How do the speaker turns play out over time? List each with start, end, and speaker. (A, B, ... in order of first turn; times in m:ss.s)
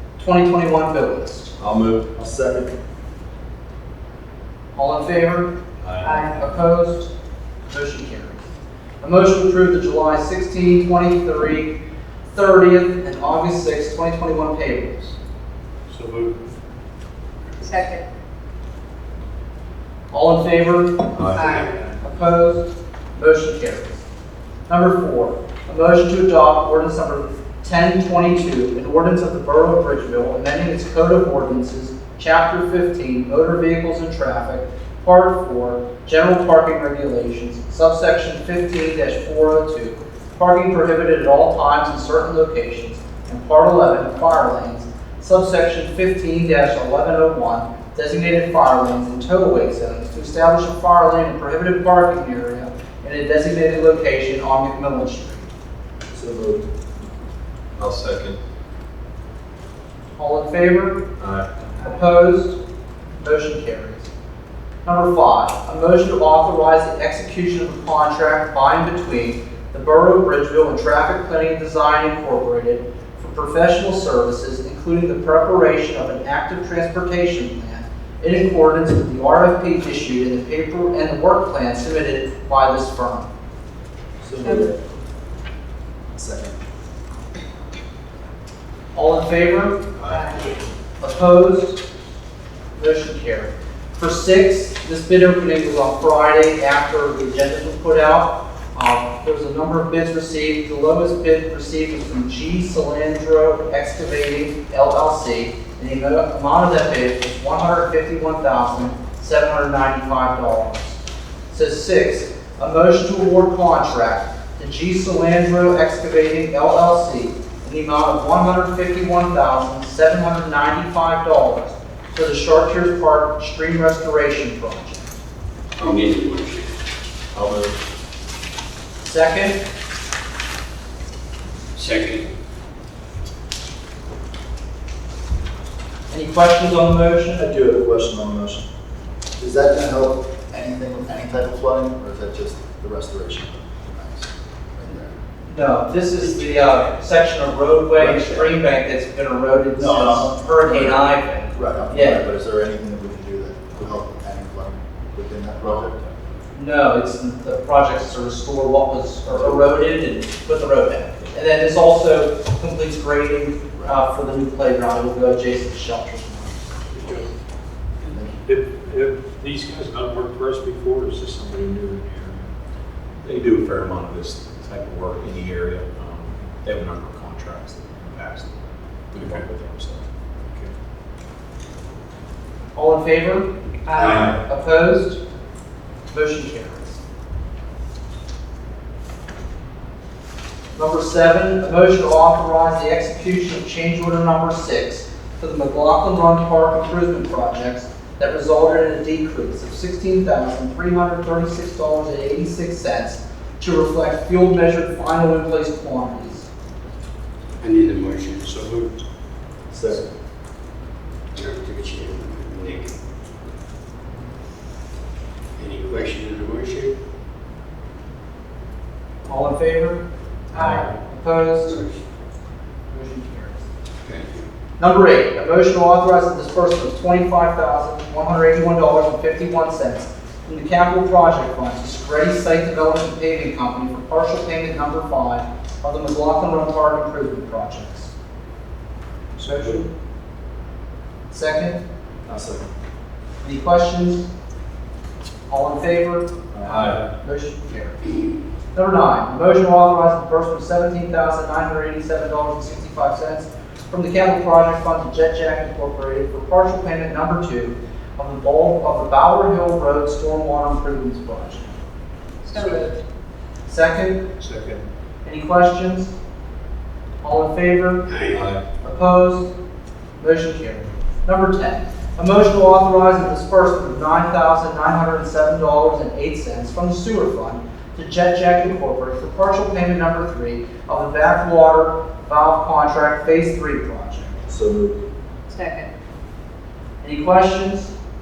0:00.2-0:01.5 A
0:01.6-0:02.0 B
0:02.2-0:02.7 C
0:04.8-0:05.5 A
0:05.8-0:06.3 B
0:06.0-0:06.4 D
0:06.0-0:07.1 A
0:07.7-0:08.4 A
0:09.0-0:11.7 A
0:12.3-0:15.1 A
0:15.9-0:16.4 E
0:17.6-0:18.0 D
0:20.1-0:21.1 A
0:21.1-0:21.5 B
0:21.4-0:21.7 D
0:21.4-0:21.7 F
0:22.0-0:24.0 A
0:24.7-0:55.5 A
0:56.1-0:56.6 C
0:57.8-0:58.3 B
1:00.2-1:01.0 A
1:01.7-1:02.6 A
1:03.2-1:04.1 A
1:04.8-1:23.3 A
1:24.2-1:24.8 C
1:24.4-1:24.7 D
1:26.2-1:26.6 C
1:28.9-1:29.8 A
1:30.0-1:30.6 B
1:30.1-1:30.5 D
1:31.0-1:31.8 A
1:32.7-1:51.0 A
1:51.5-2:05.2 A
2:05.8-2:06.7 F
2:07.3-2:07.7 B
2:09.1-2:09.6 A
2:11.8-2:12.3 F
2:16.1-2:17.5 A
2:17.5-2:18.6 C
2:19.4-2:25.1 C
2:25.5-2:32.2 A
2:29.8-2:36.0 C
2:36.5-2:46.6 A
2:46.9-2:47.3 E
2:48.1-2:48.4 C
2:48.5-2:52.5 E
2:53.2-2:58.5 B
2:59.1-3:00.0 B
3:02.8-3:05.2 A
3:03.9-3:04.3 D
3:06.1-3:07.0 A
3:10.8-3:26.5 A
3:27.6-3:28.9 F
3:29.7-3:30.0 C
3:31.3-3:33.0 F
3:35.6-3:37.0 F
3:39.3-3:40.0 A
3:40.5-3:41.8 A
3:40.6-3:40.9 B
3:41.7-3:42.0 F
3:42.9-3:43.6 A
3:44.0-3:44.4 F
3:44.8-3:58.1 A
3:59.4-3:59.9 A
4:01.3-4:01.8 A
4:02.3-4:02.7 C
4:03.4-4:04.3 A
4:05.5-4:08.0 A
4:06.6-4:06.9 C
4:08.7-4:21.8 A
4:22.5-4:22.9 D
4:22.5-4:22.8 A
4:23.7-4:24.2 A
4:25.2-4:26.1 A
4:27.2-4:28.0 A
4:28.1-4:28.4 F
4:28.3-4:28.6 B
4:28.8-4:29.5 A
4:30.2-4:44.4 A
4:44.5-4:45.0 C
4:45.5-4:45.9 D
4:47.0-4:47.9 A